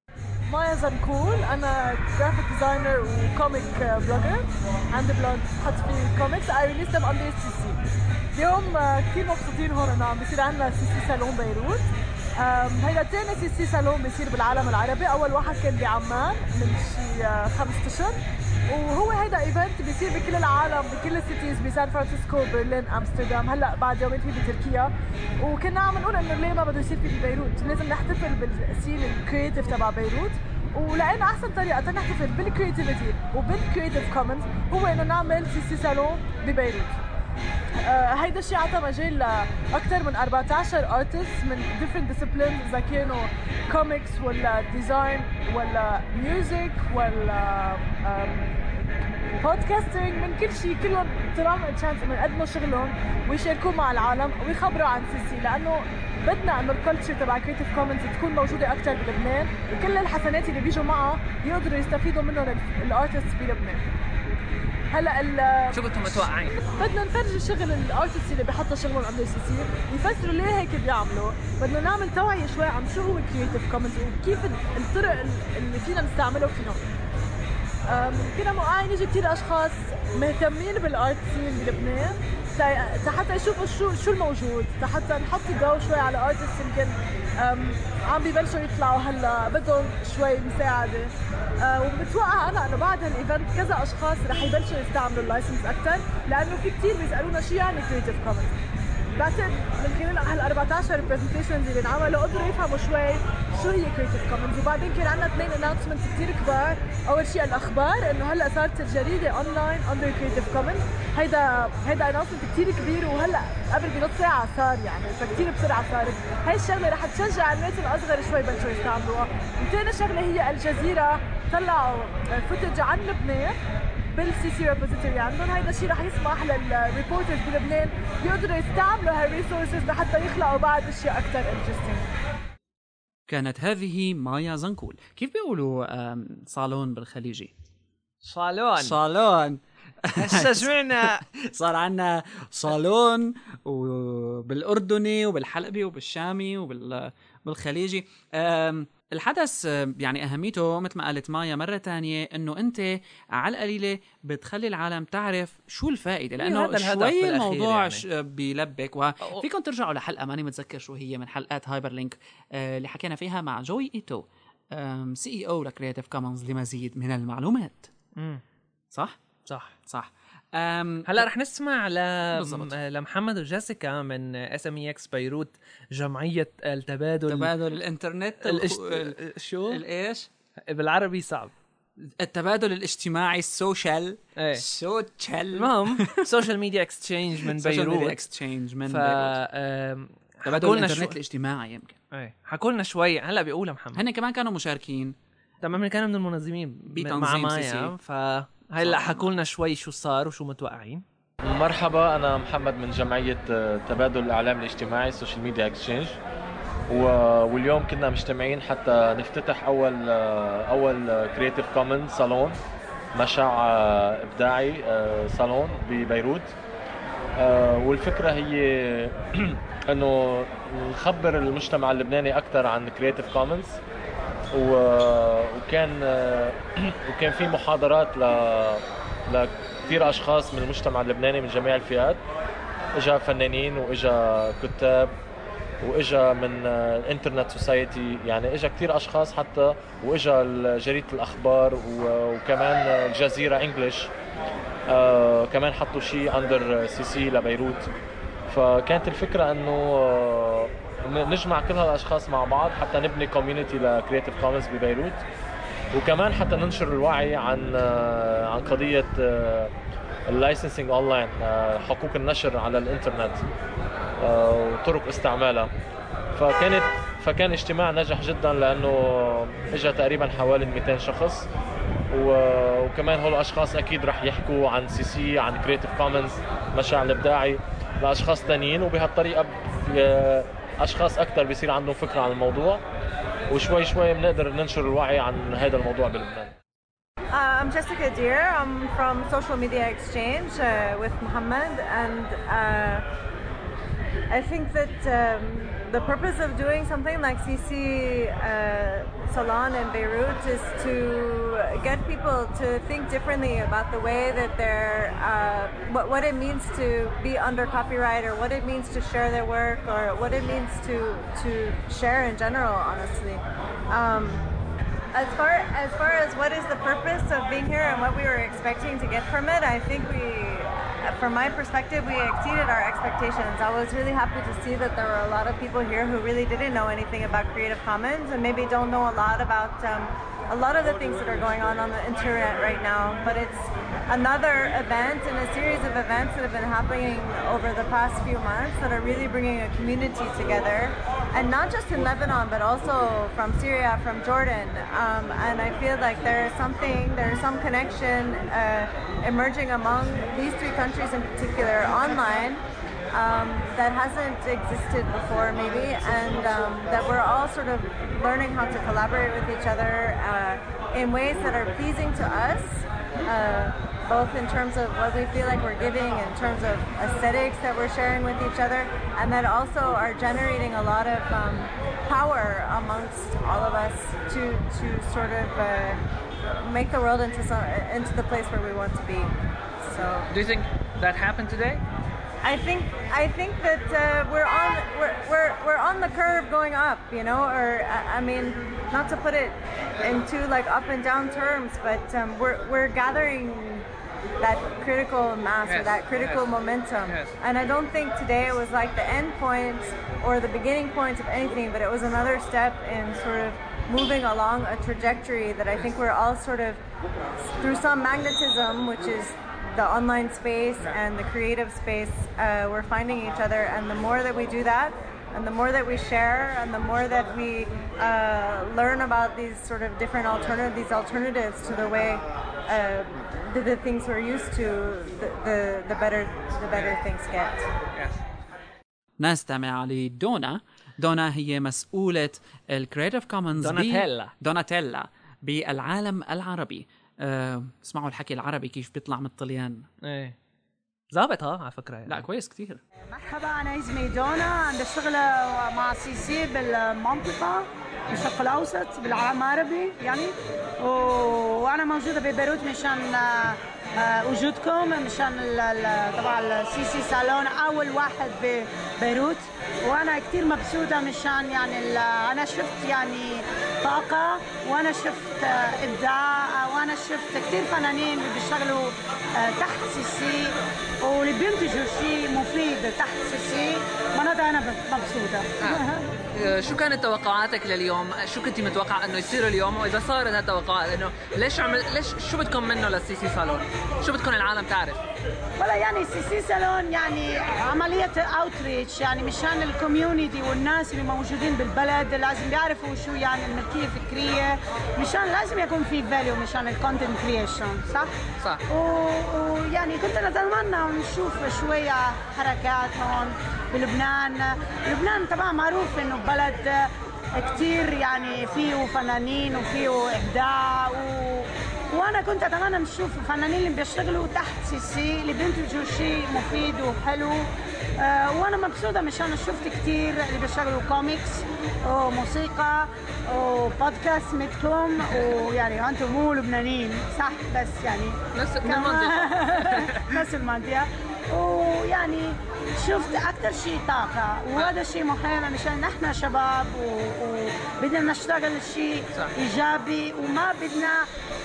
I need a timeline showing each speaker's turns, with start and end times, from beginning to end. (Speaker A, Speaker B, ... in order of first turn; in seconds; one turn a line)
Speaker A: 0.5-7.8
Speaker A: 8.3-37.0
Speaker A: 37.8-48.5
Speaker A: 49.4-63.9
Speaker A: 64.9-65.8
Speaker B: 65.7-66.6
Speaker A: 66.7-76.8
Speaker A: 77.9-98.5
Speaker A: 99.2-123.6
Speaker A: 124.1-132.1
Speaker C: 133.3-137.5
Speaker B: 138.2-139.0
Speaker C: 138.8-140.7
Speaker B: 140.2-141.2
Speaker C: 141.3-167.9
Speaker B: 156.4-158.0
Speaker B: 168.2-168.4
Speaker C: 168.9-169.2
Speaker B: 169.5-169.7
Speaker C: 169.9-171.3
Speaker B: 171.1-177.5
Speaker C: 172.3-172.7
Speaker C: 177.3-179.2
Speaker B: 178.4-179.8
Speaker C: 179.7-180.3
Speaker B: 180.7-181.5
Speaker C: 182.0-186.2
Speaker B: 184.3-184.6
Speaker B: 185.5-188.2
Speaker C: 187.5-189.3
Speaker B: 188.9-191.2
Speaker C: 190.5-192.0
Speaker B: 192.1-194.0
Speaker C: 193.9-195.2
Speaker B: 195.6-201.0
Speaker C: 196.9-197.9
Speaker C: 198.8-199.2
Speaker D: 201.5-206.2
Speaker D: 206.9-212.6
Speaker D: 213.2-216.5
Speaker D: 217.4-223.8
Speaker D: 224.5-232.2
Speaker D: 233.0-235.1
Speaker D: 235.8-244.1
Speaker D: 244.9-247.9
Speaker D: 248.5-255.2
Speaker D: 255.9-259.7
Speaker D: 260.3-263.4
Speaker D: 264.2-265.7
Speaker D: 266.4-271.4
Speaker D: 272.1-282.8
Speaker D: 283.5-286.5
Speaker E: 287.3-293.1
Speaker E: 294.3-314.4
Speaker E: 315.1-380.3
Speaker B: 380.3-381.8
Speaker E: 382.4-393.9
Speaker E: 394.4-406.8
Speaker B: 395.6-396.5
Speaker E: 407.4-427.7
Speaker B: 427.9-428.2
Speaker C: 429.2-439.9
Speaker B: 433.6-434.3
Speaker B: 440.0-440.4
Speaker B: 441.1-442.2
Speaker C: 442.1-442.8
Speaker F: 443.1-476.1
Speaker B: 476.3-485.0
Speaker F: 485.6-498.1
Speaker F: 498.7-517.5
Speaker F: 518.0-541.1
Speaker B: 528.4-530.1